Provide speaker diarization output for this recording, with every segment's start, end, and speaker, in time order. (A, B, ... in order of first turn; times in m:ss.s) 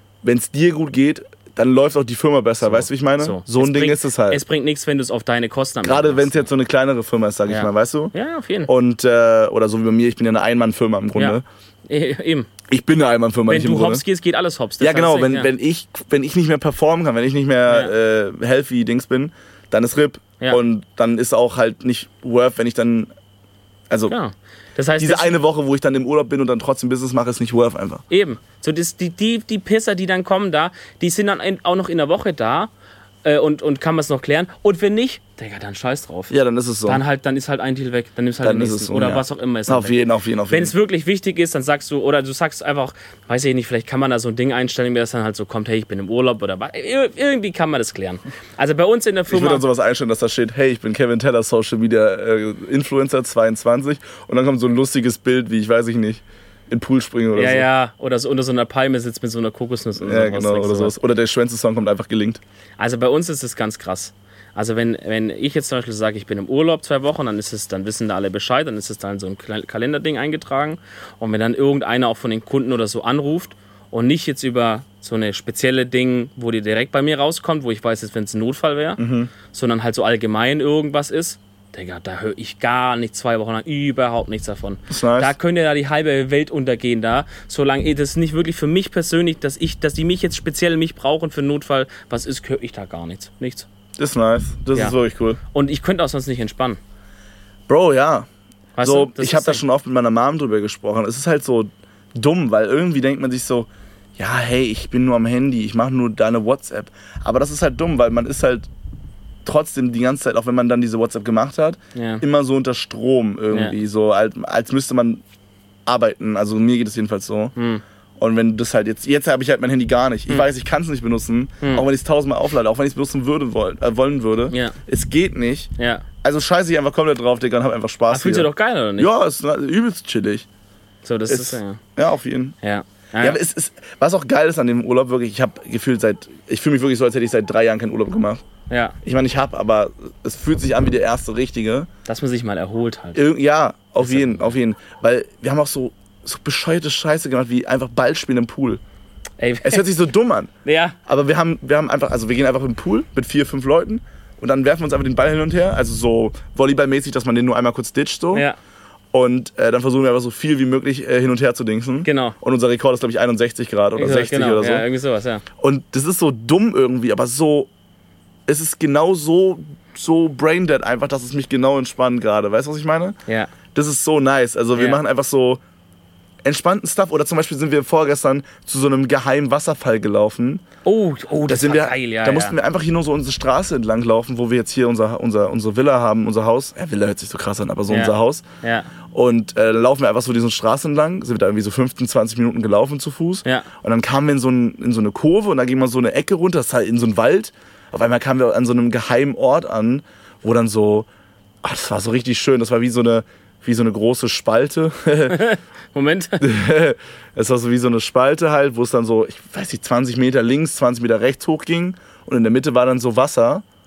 0:00.2-0:04.4 A
0:02.6-0:06.5 B
0:05.8-0:08.1 A
0:07.5-0:08.7 B
0:08.6-0:11.4 A
0:11.1-0:12.5 B
0:12.7-0:14.0 A
0:13.5-0:15.5 B
0:14.8-0:23.1 A
0:17.7-0:17.9 B
0:23.9-0:24.1 A
0:24.1-0:25.3 B
0:25.0-0:28.0 A
0:28.1-0:32.7 B
0:33.2-0:36.3 B
0:36.3-0:37.0 A
0:36.8-0:40.0 B
0:38.4-0:40.7 A
0:40.5-0:49.6 B
0:49.3-0:57.7 A
0:57.4-1:01.0 B
1:00.0-1:02.4 A
1:02.8-1:33.7 B
1:19.0-1:19.3 A
1:24.9-1:25.3 A
1:34.0-1:35.4 A
1:35.5-1:36.8 B
1:37.7-1:38.3 A
1:38.8-1:39.6 B
1:38.8-1:48.7 A
1:49.4-1:55.2 A
1:51.9-1:52.2 B
1:55.9-1:57.5 A
1:57.6-1:57.8 B
1:58.2-2:05.7 A
2:04.5-2:04.8 B
2:05.8-2:06.0 B
2:06.2-2:10.4 A
2:08.1-2:09.1 B
2:11.0-2:11.8 B
2:11.3-2:12.5 A
2:12.6-2:13.4 B
2:13.2-2:18.4 A
2:18.7-2:19.0 B
2:19.0-2:21.9 A
2:22.0-2:23.2 B
2:23.1-2:28.8 A
2:24.0-2:24.6 B
2:29.4-2:29.9 B
2:29.6-2:30.5 A
2:30.6-2:31.0 B
2:31.0-2:38.4 A
2:39.1-2:44.8 A
2:42.0-2:42.4 B
2:44.0-2:45.4 B
2:45.6-2:47.7 A
2:48.5-2:53.2 A
2:53.3-2:53.5 B
2:53.7-2:55.6 A
2:54.7-2:55.0 B
2:56.4-3:00.6 A
3:00.8-3:02.6 B
3:01.5-3:08.4 A
3:07.9-3:08.9 B
3:09.1-3:21.1 A
3:21.6-3:25.4 A
3:25.3-3:26.4 B
3:26.4-3:33.6 A